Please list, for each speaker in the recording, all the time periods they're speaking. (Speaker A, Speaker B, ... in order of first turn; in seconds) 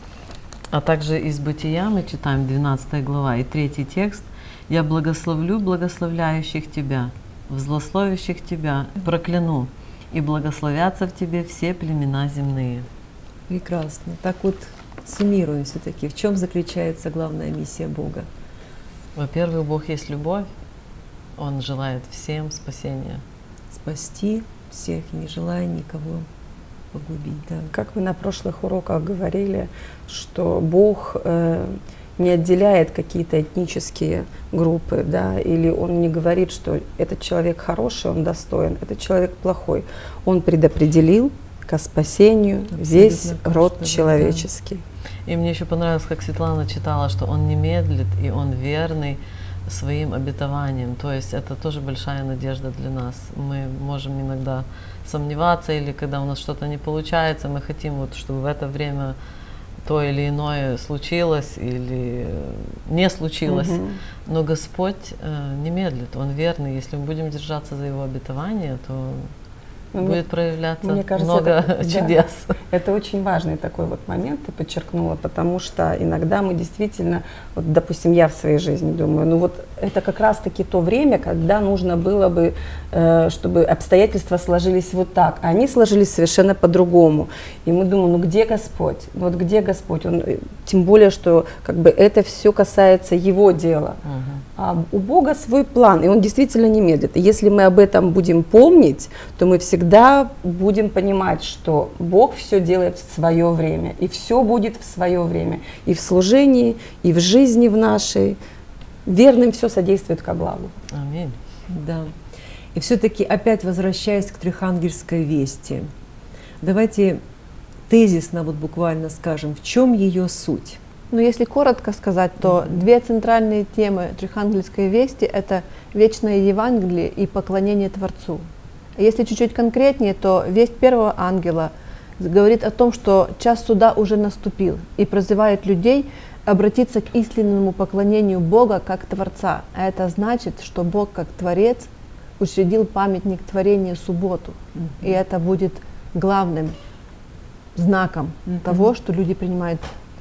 Speaker A: 0.7-12.8, 19.1-20.5, 21.4-23.2, 45.2-59.1, 59.8-69.3, 70.0-72.6, 94.0-94.4, 110.9-111.4
Speaker B: 13.5-18.3, 23.7-26.3, 26.9-27.7, 42.7-44.5, 111.7-112.1, 112.7-115.9, 116.6-117.2, 117.9-120.8
Speaker C: 27.7-44.8, 63.5-64.0, 69.9-70.2, 70.8-72.1, 72.7-94.0, 94.5-108.4, 109.0-110.7
Speaker D: 121.1-128.4, 129.0-146.7, 147.7-149.8